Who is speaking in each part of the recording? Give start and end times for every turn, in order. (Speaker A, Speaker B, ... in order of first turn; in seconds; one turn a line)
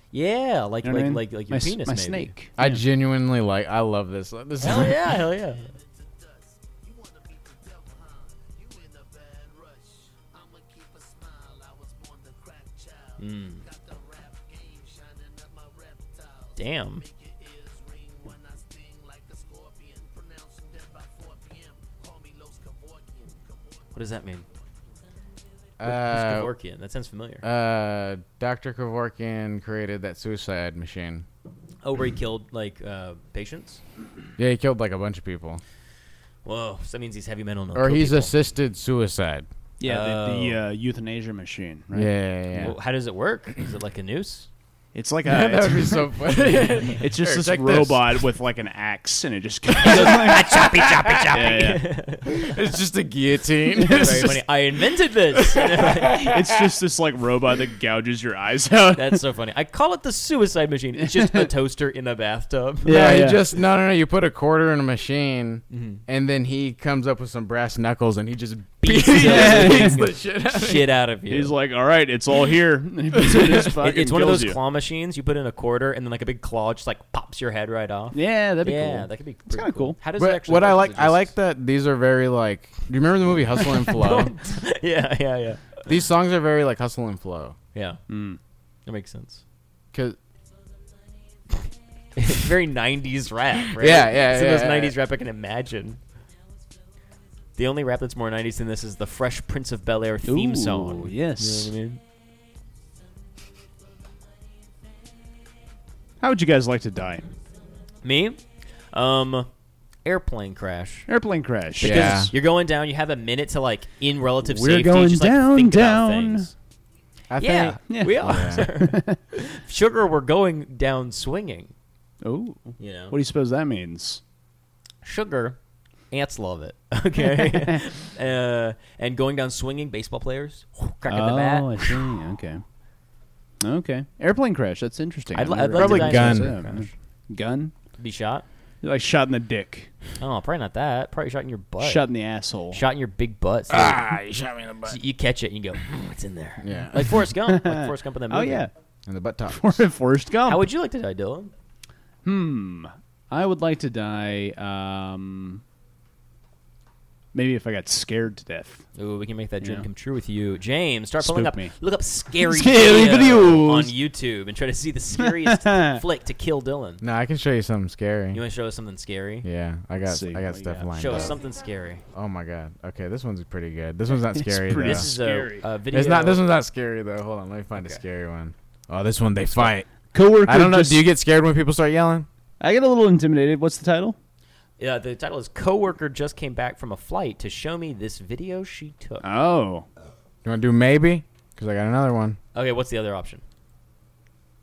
Speaker A: 0.1-2.3
Speaker B: 0.8-2.8
Speaker C: 2.6-5.0
Speaker A: 4.6-5.7
Speaker D: 5.2-24.4
Speaker A: 13.2-13.6
Speaker A: 16.6-17.1
Speaker A: 23.9-24.5
Speaker C: 25.8-26.5
Speaker A: 25.8-27.4
Speaker C: 27.4-31.2
Speaker A: 31.8-33.8
Speaker C: 34.4-35.6
Speaker A: 36.5-38.3
Speaker C: 37.7-39.5
Speaker B: 39.8-42.7
Speaker A: 39.8-40.6
Speaker C: 41.9-42.8
Speaker A: 42.6-44.5
Speaker B: 44.9-46.4
Speaker C: 45.2-48.2
Speaker B: 47.0-51.9
Speaker A: 49.8-52.6
Speaker C: 52.3-54.4
Speaker A: 53.8-56.3
Speaker C: 55.3-56.6
Speaker B: 56.3-59.2
Speaker A: 59.0-62.9
Speaker B: 61.0-61.5
Speaker B: 62.8-63.4
Speaker C: 62.9-70.9
Speaker A: 65.7-66.0
Speaker A: 68.8-71.5
Speaker B: 69.2-70.0
Speaker B: 71.3-74.6
Speaker C: 73.2-73.5
Speaker A: 73.7-81.3
Speaker B: 78.1-80.0
Speaker C: 80.2-84.3
Speaker A: 84.0-85.8
Speaker C: 85.9-87.6
Speaker B: 88.1-88.4
Speaker A: 88.9-89.4
Speaker C: 89.9-90.2
Speaker A: 92.2-96.0
Speaker C: 93.8-95.0
Speaker A: 97.6-102.0
Speaker B: 100.3-101.7
Speaker B: 106.2-107.2
Speaker A: 108.0-108.4
Speaker A: 108.9-109.5
Speaker A: 110.0-111.1
Speaker B: 111.1-112.2
Speaker A: 111.8-116.5
Speaker C: 111.8-112.3
Speaker B: 114.4-116.5
Speaker C: 117.3-118.7
Speaker A: 117.4-121.7
Speaker B: 117.9-119.2
Speaker B: 122.2-124.2
Speaker A: 122.8-123.2
Speaker A: 125.0-125.6
Speaker A: 126.1-131.9
Speaker B: 127.3-127.8
Speaker B: 131.1-132.6
Speaker B: 133.6-137.7
Speaker A: 135.3-136.9
Speaker C: 135.8-136.6
Speaker A: 138.0-138.5
Speaker B: 138.8-139.9
Speaker A: 140.2-142.1
Speaker B: 141.8-142.8
Speaker A: 142.7-144.0
Speaker C: 143.7-145.0
Speaker A: 144.8-148.7
Speaker C: 146.6-147.1
Speaker B: 147.5-148.7
Speaker C: 149.1-149.8
Speaker B: 149.5-150.7
Speaker A: 150.5-151.5
Speaker B: 152.2-155.6
Speaker B: 157.3-158.8
Speaker A: 159.0-167.0
Speaker B: 159.6-159.9
Speaker B: 161.2-161.7
Speaker B: 162.4-163.9
Speaker B: 165.3-166.0
Speaker C: 167.0-168.4
Speaker A: 168.3-169.5
Speaker C: 169.4-171.4
Speaker B: 170.1-170.8
Speaker A: 170.8-172.0
Speaker C: 172.1-175.1
Speaker B: 174.3-175.6
Speaker A: 174.8-176.4
Speaker C: 175.9-179.9
Speaker A: 177.8-178.0
Speaker B: 179.6-181.0
Speaker C: 180.4-182.3
Speaker B: 182.6-184.2
Speaker A: 184.8-189.2
Speaker B: 189.2-189.9
Speaker C: 190.4-192.4
Speaker A: 192.6-193.4